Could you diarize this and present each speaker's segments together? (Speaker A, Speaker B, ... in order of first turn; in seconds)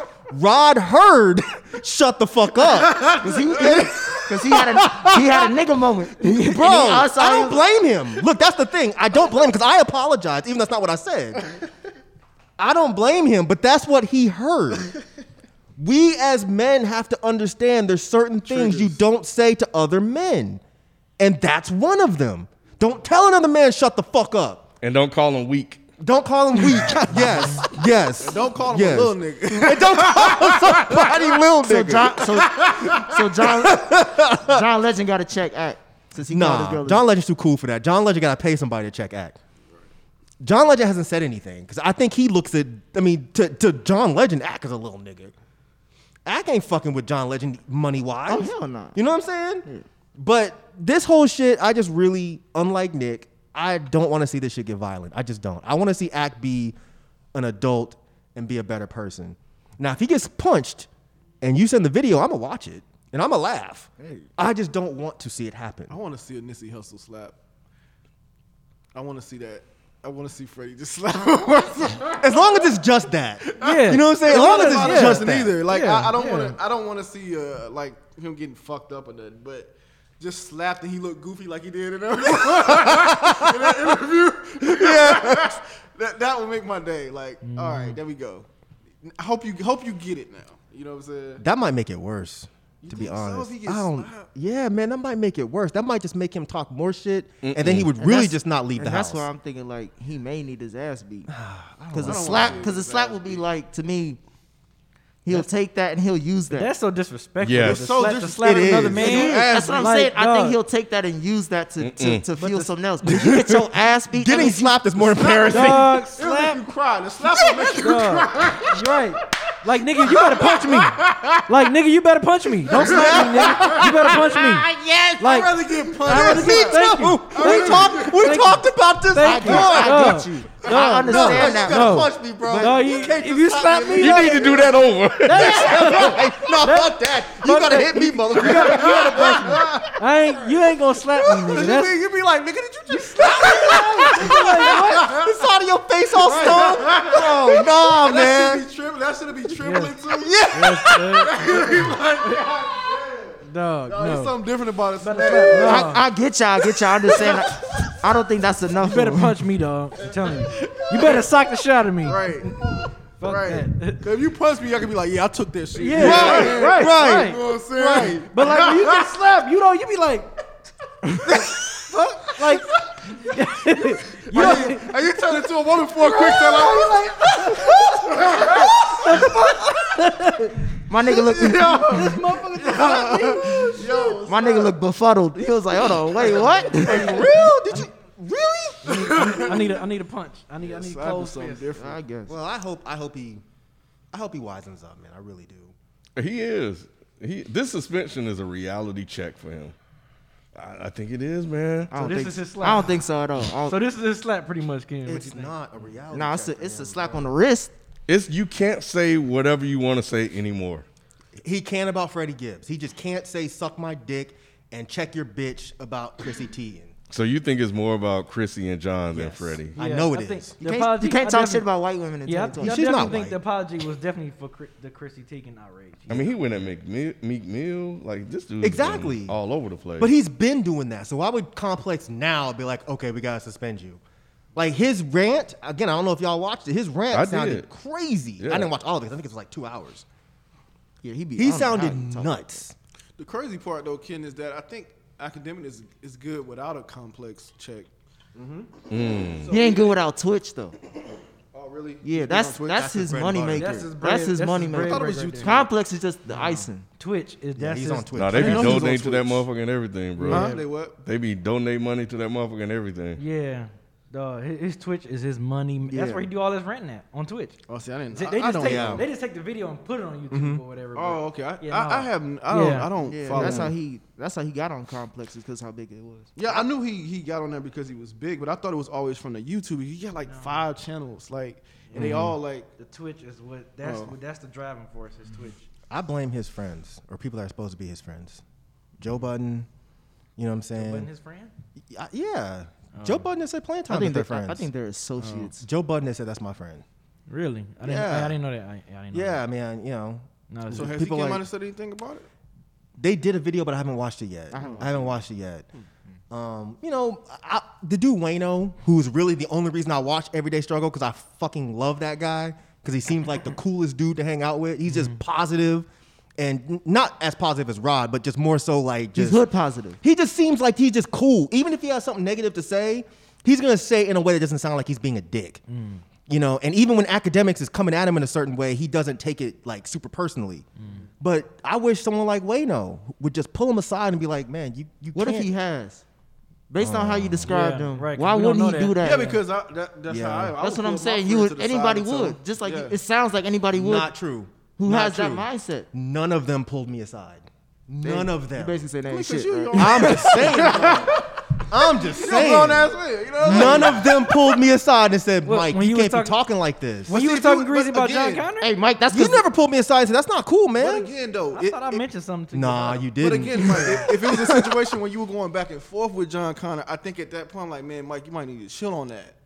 Speaker A: 0.3-5.5, 6.2-11.5, 12.6-14.9, 15.8-20.6, 21.2-24.7, 26.0-33.0, 33.5-34.6, 36.3-39.4, 40.4-45.3, 46.3-49.7, 50.2-56.8, 57.3-60.9, 61.4-66.0, 72.2-75.6, 82.4-84.0, 84.6-85.6, 91.4-99.3, 101.3-102.7, 107.6-109.4, 113.0-116.0, 117.4-117.7, 122.8-124.4, 126.0-134.7, 135.3-140.0, 141.1-148.6, 150.2-150.9, 165.9-168.3, 174.4-174.7, 186.8-189.6, 192.3-193.4, 194.1-195.7, 205.1-207.3, 211.4-216.9, 219.1-220.6, 222.6-223.4, 228.6-229.4, 230.0-234.0, 234.6-240.1, 241.4-242.8, 252.7-253.7, 257.6-259.4, 268.6-269.1, 270.3-270.6, 273.4-273.7, 282.0-282.4, 285.9-288.4, 289.0-289.7, 290.4-291.1, 291.9-294.7, 295.6-296.9, 297.8-298.4, 299.1-301.5, 303.0-305.7, 306.3-319.4, 320.0-325.6, 326.3-330.7, 331.2-335.5, 336.8-337.5, 340.1-340.6, 343.7-351.2, 351.7-357.2, 359.1-361.1, 362.5-364.6
Speaker B: 3.2-7.6, 31.6-37.0, 48.3-49.0, 98.0-101.3, 101.9-104.2, 105.2-106.7, 109.0-114.8, 129.2-132.9, 155.6-159.4, 180.9-182.2, 184.1-187.2, 191.8-192.4, 201.9-203.8, 206.1-207.7, 220.6-223.1, 241.0-242.5, 249.5-250.8, 252.0-256.9, 265.9-266.3, 273.0-276.5, 293.9-295.7, 304.5-305.1, 319.1-320.0, 335.1-336.0, 336.7-339.4, 340.6-344.1, 344.8-345.9, 348.0-351.1, 353.4-354.0, 358.6-359.4
Speaker C: 18.5-19.0, 28.2-31.6, 32.2-33.1, 65.9-67.4, 68.9-72.4, 73.4-88.5, 89.0-91.4, 92.8-94.3, 102.0-103.4, 108.1-109.9, 115.0-118.9, 120.0-121.5, 122.7-128.2, 138.5-139.8, 141.5-141.9, 143.0-145.4, 146.2-156.0, 160.2-161.3, 162.0-169.2, 171.3-173.2, 174.1-179.2, 181.1-184.8, 186.2-186.5, 189.0-189.8, 190.6-192.0, 243.2-248.7, 249.3-250.0, 251.5-253.2, 254.8-255.7, 258.3-259.4, 260.3-261.0, 267.7-269.0, 270.9-273.7, 276.4-282.7, 283.8-284.1, 300.7-302.3, 339.0-343.0, 349.7-354.5, 357.1-358.5, 360.8-362.1, 363.2-369.4
Speaker D: 24.8-25.8, 97.4-97.9, 107.4-107.9, 111.8-112.2, 134.0-136.1, 196.2-199.8, 200.6-201.9, 208.1-210.9, 217.1-219.8, 226.1-230.1, 237.1-237.7, 238.4-238.7, 248.9-249.5, 258.1-263.2
Speaker E: 73.6-76.6, 87.4-88.0, 106.5-110.6, 112.4-112.7, 115.5-116.6, 117.7-134.7, 135.2-142.0, 142.9-145.1, 149.6-150.0, 150.5-152.6, 153.4-154.4, 155.0-156.0, 158.8-162.6, 163.2-164.1, 165.8-167.4, 167.9-170.3, 171.9-174.9, 176.3-180.6, 181.9-183.8, 186.7-187.9, 188.8-191.7, 201.9-203.0, 203.7-205.5, 219.8-221.7, 222.3-226.4, 253.6-255.6, 256.3-258.8, 260.2-260.6, 263.2-267.6, 268.1-272.9, 280.3-280.7, 281.9-285.7, 290.8-291.5, 292.9-293.3, 295.2-295.5, 297.3-299.4, 300.5-301.0, 314.9-315.2, 325.7-326.0, 330.8-331.0, 337.5-339.3, 355.4-356.4, 357.1-358.7, 360.8-363.1